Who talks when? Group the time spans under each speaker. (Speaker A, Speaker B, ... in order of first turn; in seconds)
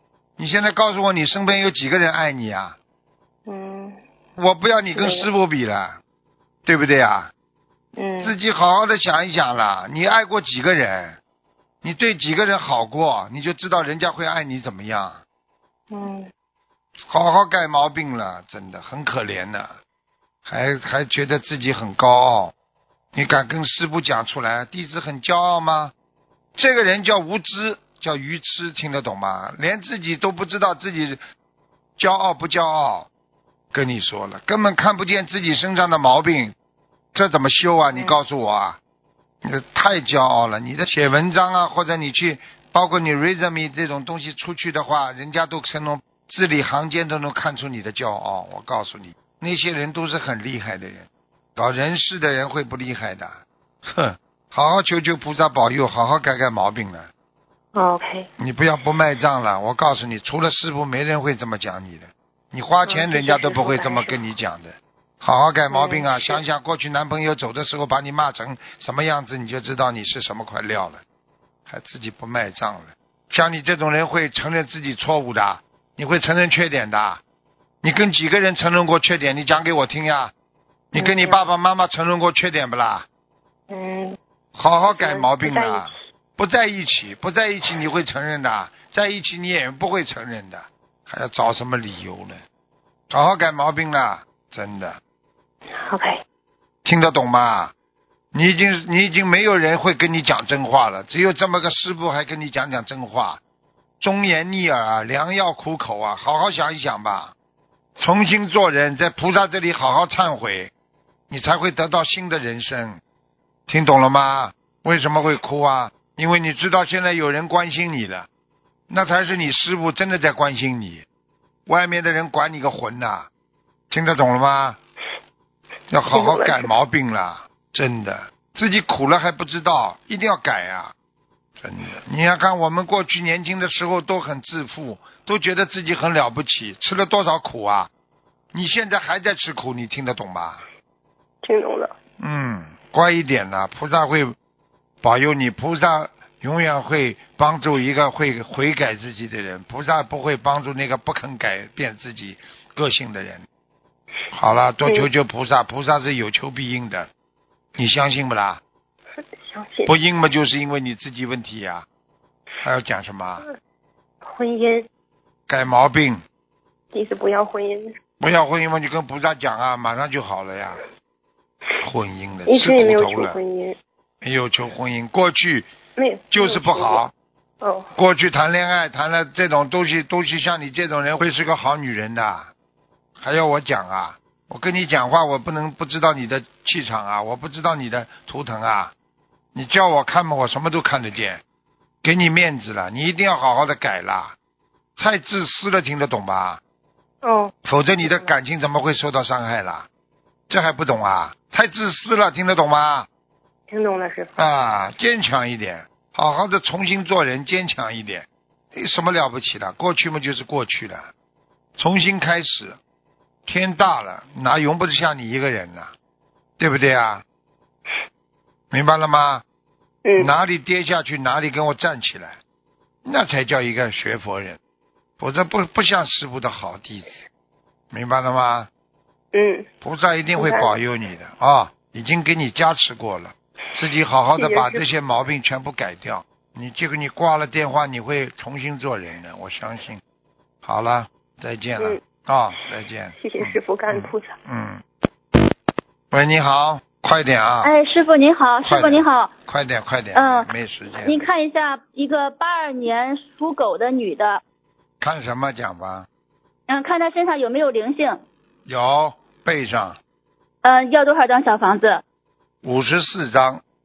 Speaker A: 0.4-2.8, 4.4-6.0, 6.6-7.3, 8.2-11.2, 11.8-15.2, 17.0-19.8, 20.4-22.5, 23.1-25.9, 26.5-31.2, 32.0-33.1, 33.7-36.5, 37.1-38.8, 39.4-57.1, 58.4-71.0, 71.7-77.2, 77.8-80.3, 80.9-83.0, 84.5-92.4, 93.1-95.0, 96.8-97.7, 98.3-103.4, 104.0-107.3, 108.0-110.7, 111.3-113.0, 113.7-118.3, 118.9-121.0, 121.7-123.3, 123.9-124.8, 125.9-130.9, 131.6-137.9, 138.5-140.6, 142.2-144.3, 145.0-153.5, 154.3-157.1, 157.8-158.6, 159.8-161.8, 162.6-163.4, 165.5-166.2, 168.2-170.8, 171.8-173.4, 174.2-175.7, 176.3-177.1, 177.9-182.5, 183.2-188.9, 189.5-191.4, 192.0-194.3, 195.0-196.6, 197.6-199.9, 200.5-203.1, 204.4-211.1, 211.8-212.8, 213.4-215.9, 216.6-217.2, 218.7-219.4, 220.2-222.4, 223.0-224.6, 225.2-227.2, 227.9-228.7, 229.8-240.0, 240.6-244.8, 246.1-247.7, 248.6-251.3, 255.0-256.1, 258.6-260.0, 262.6-263.6
Speaker B: 3.5-4.0, 4.9-5.3, 8.0-8.3, 15.9-16.3, 37.9-38.2, 57.7-58.3, 62.9-64.2, 65.7-66.4, 81.0-81.4, 83.7-84.2, 84.8-85.9, 95.7-96.2, 126.1-126.7, 141.4-141.9, 159.3-159.9, 164.2-164.9, 166.9-167.9, 172.5-173.8, 176.0-177.0, 177.6-177.9, 197.2-198.3, 203.7-204.3, 229.3-229.6, 230.3-230.7, 234.3-234.8, 243.2-244.3
Speaker C: 247.6-249.3, 250.1-250.5, 251.0-254.4, 256.7-258.2, 260.6-262.0